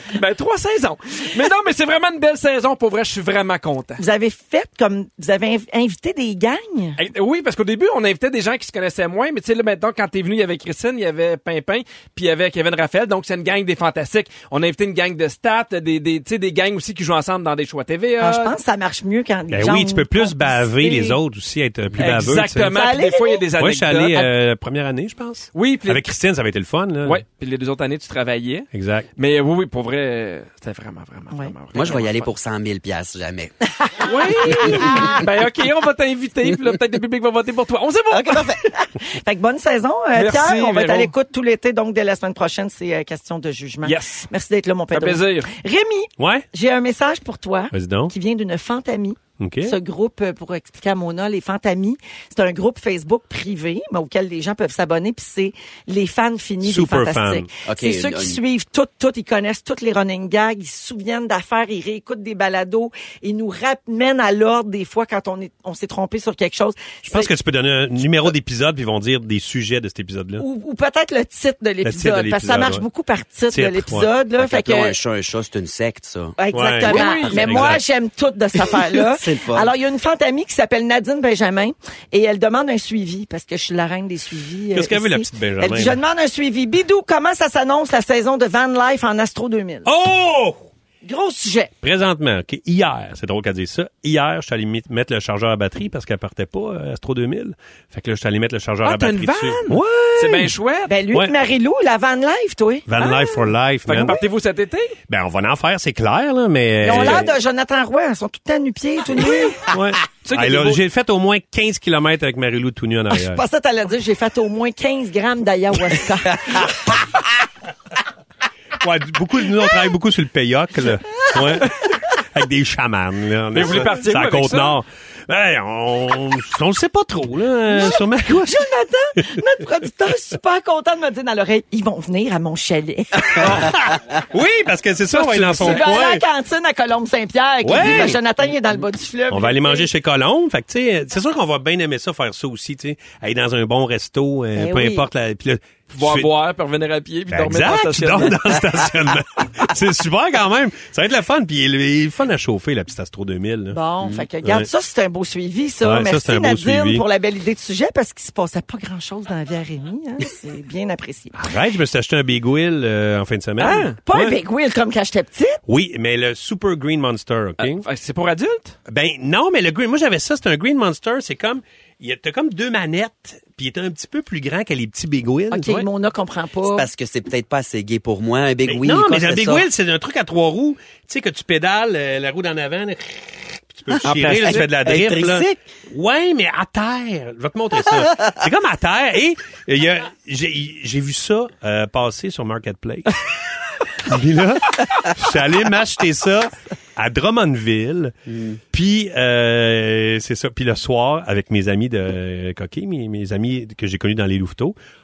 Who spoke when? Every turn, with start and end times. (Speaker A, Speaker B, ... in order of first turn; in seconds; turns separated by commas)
Speaker A: 0.1-4.0, Speaker B: 4.0-7.0, Speaker A: 7.0-18.6, Speaker B: 18.2-21.2, Speaker C: 19.5-22.8, Speaker A: 22.0-24.3, Speaker B: 22.7-23.4, Speaker C: 23.6-27.2, Speaker A: 25.5-26.1, Speaker A: 27.1-32.3, Speaker C: 28.7-29.1, Speaker D: 31.7-33.5, Speaker B: 33.8-35.2, Speaker A: 34.0-38.6, Speaker D: 34.6-35.1, Speaker D: 38.1-38.6, Speaker B: 38.8-67.3, Speaker A: 40.1-41.1, Speaker A: 43.8-44.3, Speaker A: 44.9-45.5, Speaker C: 46.2-46.5, Speaker C: 47.7-48.1, Speaker C: 49.4-49.8, Speaker C: 56.6-57.5, Speaker D: 57.7-58.4, Speaker C: 67.0-70.4, Speaker B: 70.4-75.0, Speaker C: 71.8-72.9, Speaker C: 73.5-74.1, Speaker D: 74.4-77.8, Speaker B: 76.4-89.9, Speaker C: 76.5-77.8, Speaker A: 76.9-77.4, Speaker D: 78.6-79.7, Speaker C: 84.7-86.0, Speaker C: 89.8-90.7, Speaker B: 91.0-91.7, Speaker C: 91.8-100.5, Speaker A: 98.8-101.0, Speaker B: 100.9-102.9, Speaker C: 102.9-104.2, Speaker A: 103.0-105.0, Speaker C: 105.1-107.3, Speaker B: 106.8-109.7, Speaker C: 109.7-113.4, Speaker A: 110.2-110.8, Speaker B: 113.1-116.7, Speaker C: 118.8-128.7, Speaker A: 123.5-124.8, Speaker B: 127.7-133.7, Speaker C: 133.4-136.2, Speaker A: 135.1-135.9, Speaker B: 135.6-139.9, Speaker C: 137.6-138.2, Speaker C: 139.3-146.3, Speaker B: 144.6-145.1, Speaker A: 145.9-148.4, Speaker C: 147.3-153.8, Speaker B: 153.7-161.3, Speaker D: 154.0-154.3, Speaker C: 154.4-154.7, Speaker C: 155.8-157.0, Speaker C: 161.3-164.4, Speaker A: 163.6-163.9, Speaker B: 163.7-165.6, Speaker C: 165.7-167.8, Speaker A: 167.6-168.8, Speaker C: 168.9-175.9, Speaker B: 175.5-176.9, Speaker D: 176.7-179.7, Speaker C: 178.7-193.2, Speaker D: 183.9-185.6, Speaker A: 184.2-184.7, Speaker C: 193.9-198.1, Speaker D: 198.3-198.6, Speaker C: 198.7-204.8